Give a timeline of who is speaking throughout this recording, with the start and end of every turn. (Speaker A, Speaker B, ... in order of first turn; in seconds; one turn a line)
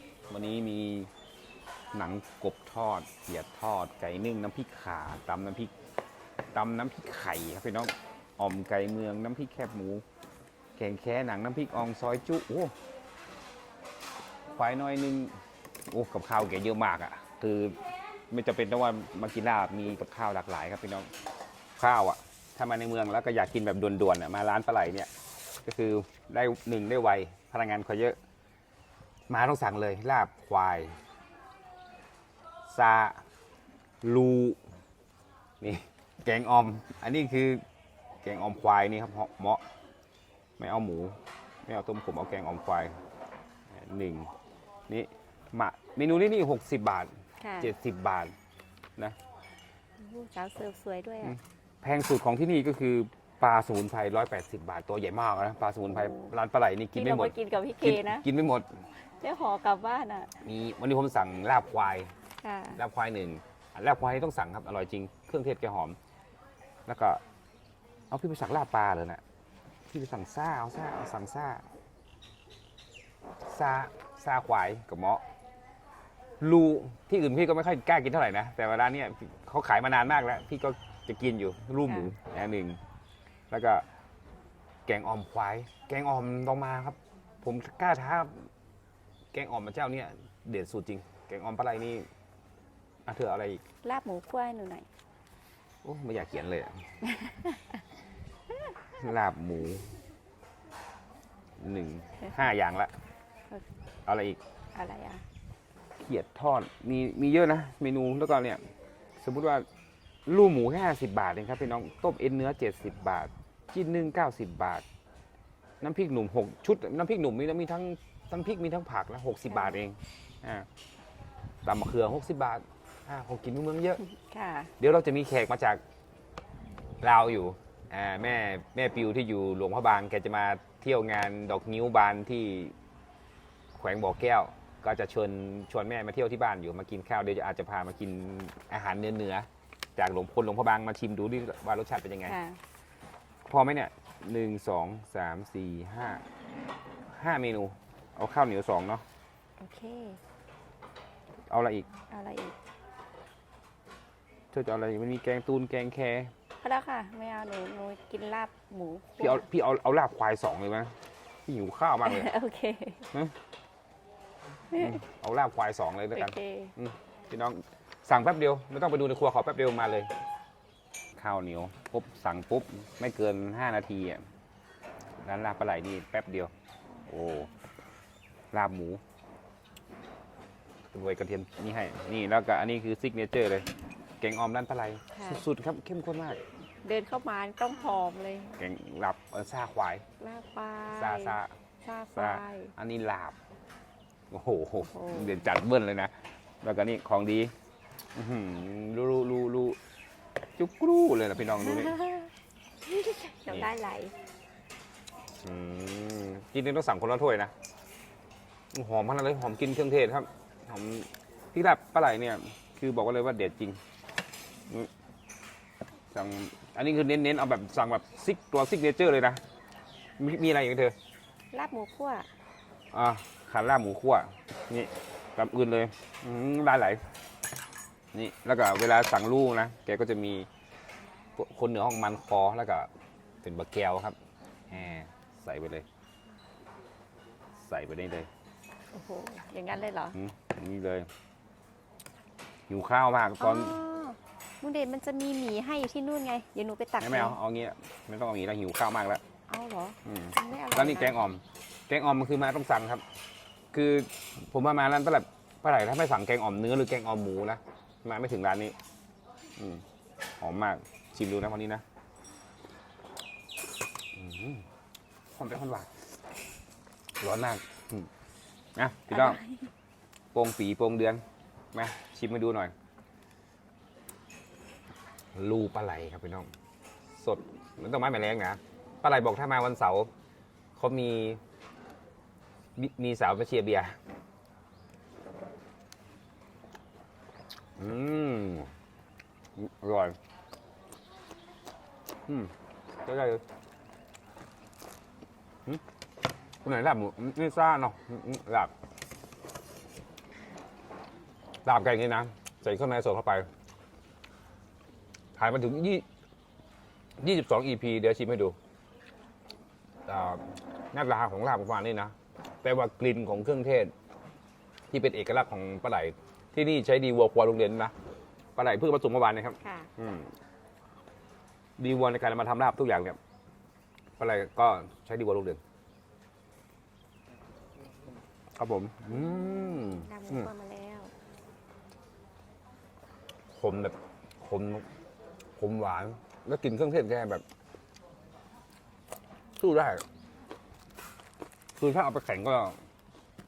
Speaker A: 0.3-1.1
Speaker A: 1.9-5.7
Speaker A: 6.5-10.0
Speaker A: 10.8-12.7
Speaker A: 14.5-17.8
Speaker A: 18.3-21.1
Speaker A: 21.8-25.1
Speaker A: 25.6-28.2
Speaker A: 29.3-31.0
Speaker A: 32.7-33.2
Speaker A: 34.0-34.6
Speaker A: 35.6-37.6
Speaker A: 38.2-39.6
Speaker A: 40.6-43.0
Speaker A: 43.7-44.3
Speaker A: 44.9-48.3
Speaker B: 47.4-47.7
Speaker B: 50.0-51.3
Speaker A: 51.2-58.7
Speaker B: 56.0-56.3
Speaker B: 57.0-58.2
Speaker B: 59.0-60.3
Speaker A: 60.4-62.1
Speaker B: 62.4-62.8
Speaker A: 62.7-66.0
Speaker A: 66.9-67.2
Speaker A: 68.1-69.2
Speaker A: 69.9-71.7
Speaker A: 73.5-75.2
Speaker A: 76.4-82.8
Speaker A: 83.5-83.8
Speaker A: 84.9-88.5
Speaker A: 89.3-92.1
Speaker A: 93.0-93.6
Speaker B: 93.8-94.9
Speaker A: 95.8-96.7
Speaker B: 97.0-97.6
Speaker A: 99.0-99.9
Speaker A: 101.6-102.9
Speaker A: 104.0-104.4
Speaker B: 104.7-105.2
Speaker A: 106.0-108.6
Speaker A: 109.2-109.7
Speaker A: 110.2-114.8
Speaker A: 115.8-120.7
Speaker A: 121.7-124.0
Speaker B: 124.0-124.7
Speaker A: 124.8-125.8
Speaker A: 127.0-132.7
Speaker A: 133.7-142.4
Speaker B: 142.3-142.6
Speaker A: 143.5-146.2
Speaker A: 147.1-149.0
Speaker B: 149.6-150.2
Speaker A: 151.5-151.9
Speaker B: 152.1-152.5
Speaker A: 154.5-156.3
Speaker B: 156.6-159.4
Speaker A: 159.2-162.3
Speaker B: 162.0-163.0
Speaker B: 164.7-165.0
Speaker A: 164.7-170.1
Speaker B: 166.1-166.7
Speaker A: 171.2-174.2
Speaker A: 175.2-176.5
Speaker A: 177.1-177.5
Speaker A: 178.5-179.0
Speaker A: 180.9-183.7
Speaker A: 184.2-186.4
Speaker B: 185.1-185.4
Speaker B: 186.8-188.6
Speaker A: 188.6-190.0
Speaker B: 190.2-192.7
Speaker A: 190.9-191.5
Speaker A: 192.2-193.4
Speaker A: 194.3-197.5
Speaker B: 194.9-195.5
Speaker A: 198.2-199.8
Speaker A: 200.6-202.0
Speaker B: 201.6-202.3
Speaker B: 202.8-204.1
Speaker A: 205.4-207.5
Speaker A: 208.7-213.8
Speaker A: 216.1-219.4
Speaker A: 220.2-221.0
Speaker B: 221.5-222.3
Speaker A: 222.9-227.0
Speaker A: 228.1-230.5
Speaker A: 231.4-232.9
Speaker A: 233.4-234.2
Speaker A: 234.7-235.8
Speaker A: 237.6-238.3
Speaker B: 238.9-240.2
Speaker A: 240.1-241.1
Speaker A: 242.7-243.8
Speaker B: 243.4-247.4
Speaker A: 247.0-249.2
Speaker B: 249.5-251.2
Speaker A: 250.0-253.0
Speaker A: 253.7-258.8
Speaker A: 259.6-259.9
Speaker A: 260.4-261.8
Speaker A: 264.1-264.6
Speaker A: 265.4-265.9
Speaker A: 267.2-268.1
Speaker A: 268.8-269.4
Speaker B: 269.1-269.7
Speaker A: 270.3-271.2
Speaker A: 271.7-272.7
Speaker A: 275.4-276.5
Speaker A: 277.2-280.1
Speaker A: 280.8-281.4
Speaker A: 282.8-284.0
Speaker A: 287.8-288.7
Speaker A: 289.6-290.2
Speaker A: 292.3-292.5
Speaker A: 293.0-293.4
Speaker A: 296.6-298.7
Speaker A: 301.6-303.5
Speaker A: 305.4-306.1
Speaker A: 307.2-308.6
Speaker A: 310.1-310.4
Speaker A: 310.9-313.9
Speaker A: 314.9-317.9
Speaker A: 318.6-320.3
Speaker B: 319.6-319.9
Speaker A: 321.8-323.2
Speaker A: 324.2-325.6
Speaker A: 328.6-330.5
Speaker B: 330.0-331.1
Speaker A: 333.6-334.9
Speaker A: 335.6-337.4
Speaker A: 339.6-340.0
Speaker A: 341.8-342.8